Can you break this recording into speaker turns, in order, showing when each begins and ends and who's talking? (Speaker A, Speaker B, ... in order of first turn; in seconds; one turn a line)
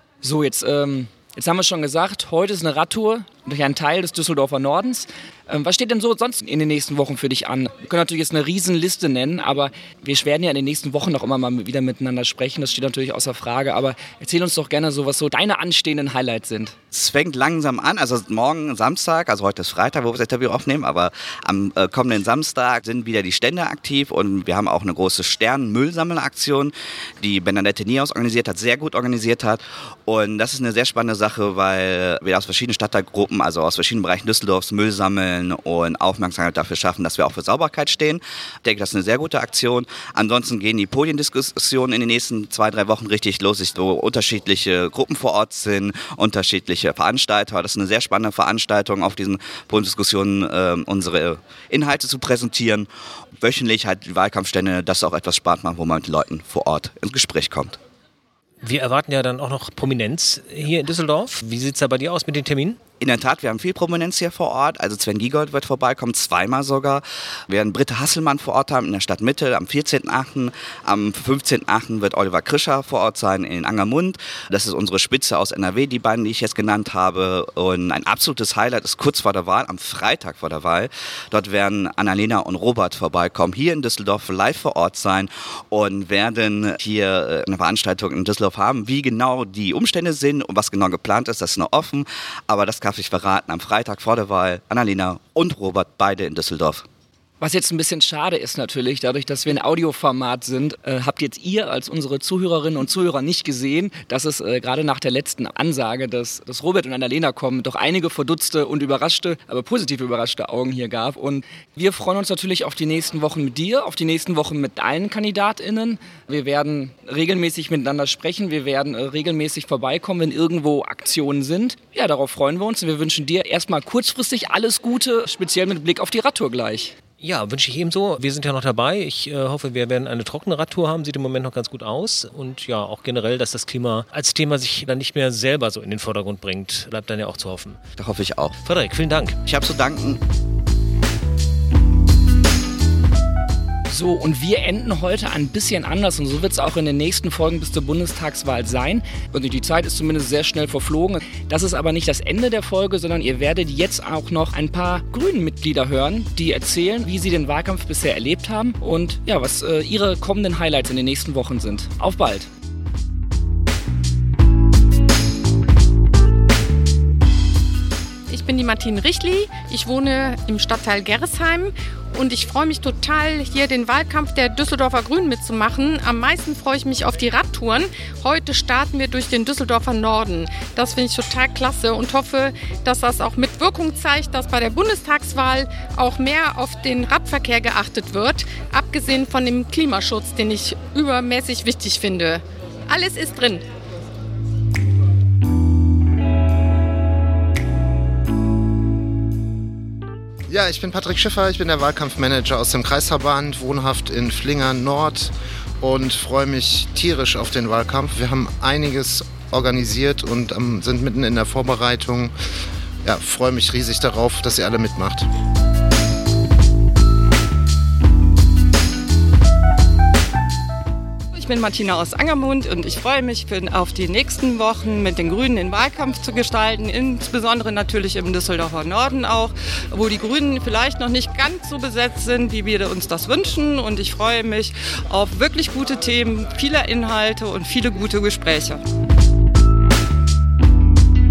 Speaker A: 0.2-16.8
Speaker B: 16.9-52.9
Speaker B: 53.4-57.8
Speaker C: 58.6-62.8
Speaker B: 63.0-96.8
Speaker A: 97.4-127.0
Speaker C: 127.2-137.8
Speaker B: 138.0-138.6
Speaker C: 138.7-139.4
Speaker B: 139.5-140.2
Speaker A: 143.9-162.5
Speaker D: 168.3-193.6
Speaker E: 200.5-212.3
Speaker E: 213.0-215.3
Speaker F: 221.3-238.8